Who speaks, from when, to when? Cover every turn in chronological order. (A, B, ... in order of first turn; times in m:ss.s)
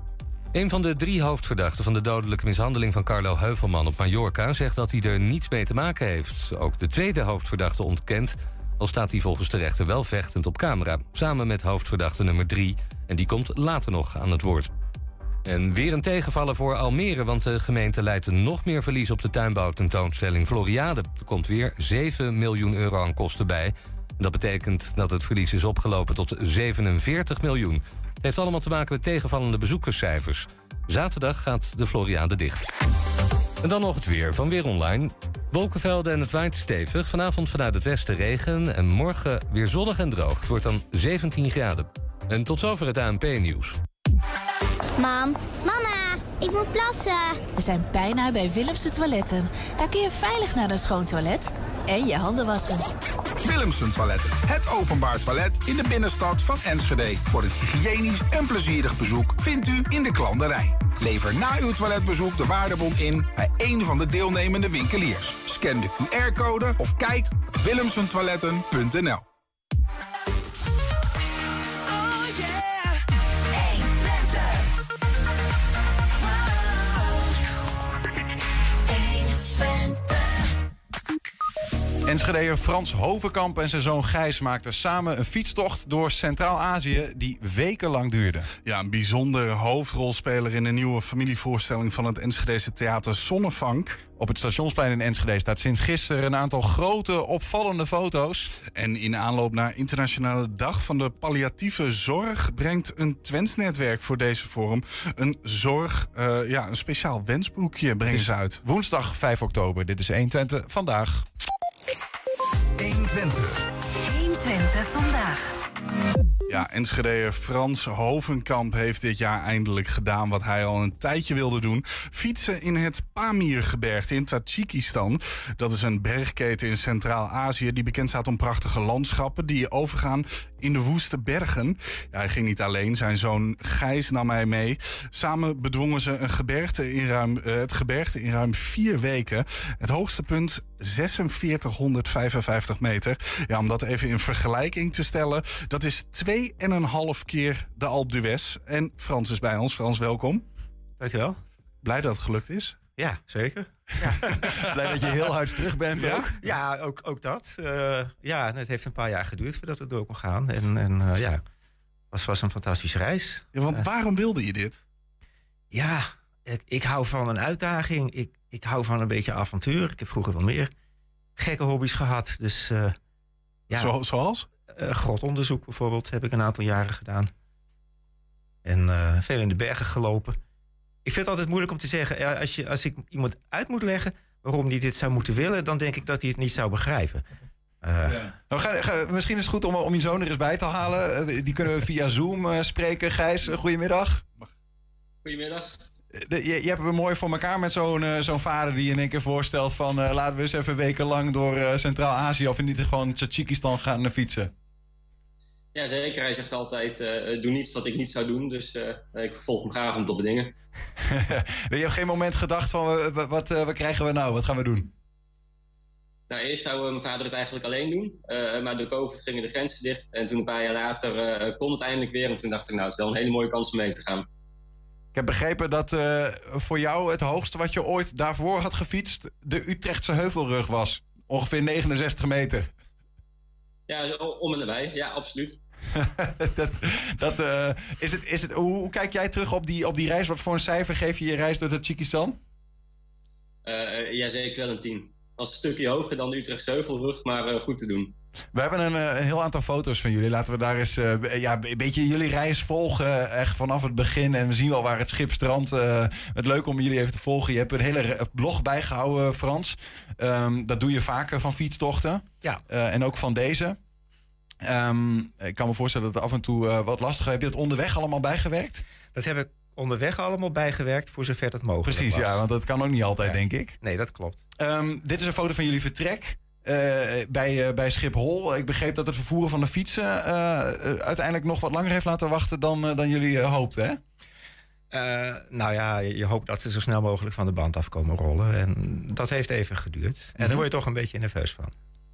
0:00.5-0:14.7 A
0:15.5-0:32.7 A
0:33.6-0:43.8 A
0:45.0-0:47.4 B
0:47.6-0:52.8 C
0:53.4-1:09.2 D
1:13.6-1:14.4 C
1:19.4-1:20.1 C
1:22.0-1:28.5 E
1:28.6-1:34.0 F
1:34.2-1:38.5 E
1:38.8-1:48.6 F
1:48.1-1:51.3 E
1:52.8-1:53.6 D
1:54.0-1:55.6 C
1:56.5-2:30.4 F
2:31.0-2:31.4 G
2:31.8-2:32.8 F
2:33.0-2:34.4 G
2:34.6-2:36.4 E
2:36.0-2:36.2 F
2:36.4-2:41.4 G
2:42.1-2:43.9 G
2:43.6-2:44.8 F
2:45.7-2:50.7 G
2:51.4-2:53.0 G
2:53.8-2:54.5 F
2:54.7-2:57.3 G
2:58.6-3:00.4 G
3:01.0-3:07.2 G
3:07.8-3:08.3 G
3:08.1-3:08.3 F
3:08.5-3:14.2 E
3:15.2-3:15.8 H
3:16.1-3:24.5 E
3:25.7-3:30.5 H
3:31.1-3:34.9 E
3:36.3-3:44.2 H
3:45.1-3:52.7 E
3:53.9-3:55.6 H
3:56.0-4:02.4 E
4:03.7-4:08.1 H
4:08.5-4:23.8 E
4:24.6-4:28.8 E
4:29.1-4:32.4 G
4:31.8-4:33.8 E
4:33.2-4:34.4 G
4:34.6-4:44.0 E
4:44.9-4:51.7 G